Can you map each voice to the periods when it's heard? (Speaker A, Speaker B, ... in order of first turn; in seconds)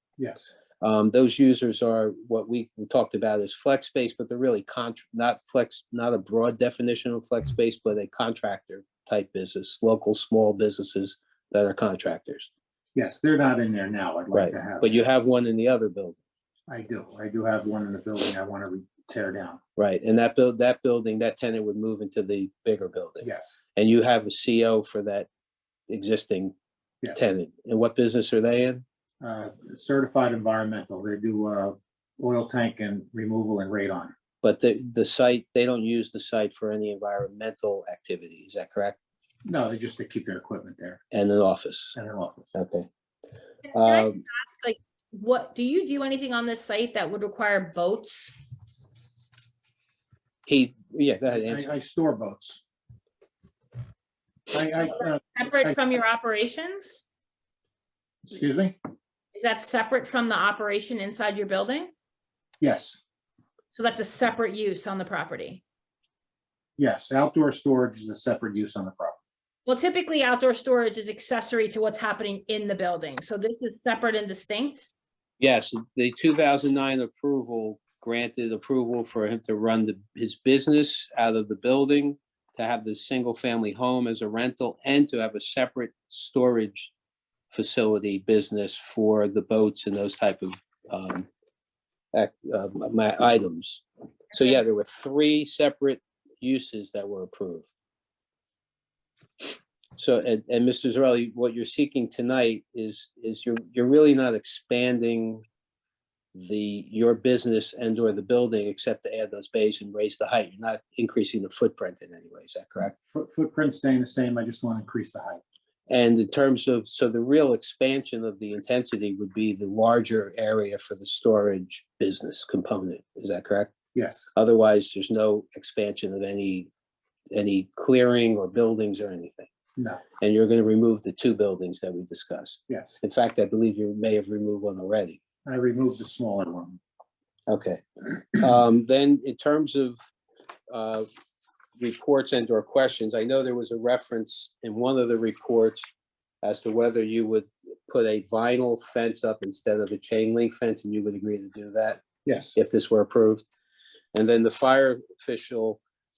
Speaker A: 0.2-0.5, 12.9-15.1, 16.7-19.6, 23.2-23.6, 29.2-34.1, 39.4-41.0, 41.9-42.5, 51.4-52.6, 54.5-55.8, 58.2-58.8, 62.6-63.0, 66.8-69.2, 113.1-115.4, 123.9-124.2, 132.7-133.0, 135.4-136.8, 152.2-152.6
Speaker B: 0.8-12.5, 14.3-16.2, 19.8-25.3, 25.9-26.5, 27.1-28.8, 34.4-39.0, 41.1-41.9, 42.5-42.9, 43.7-44.2, 50.5-51.7, 75.4-86.9, 87.5-91.3, 92.1-97.7, 100.0-105.4, 106.3-113.0, 115.9-123.7, 124.3-126.7, 127.3-129.5, 130.2-135.2, 137.5-140.0, 140.7-141.1, 141.8-145.8, 146.4-152.0, 152.5-153.4, 154.1-155.8
Speaker C: 43.7-48.3, 55.0-57.0, 59.3-61.9, 63.7-65.6, 69.7-74.9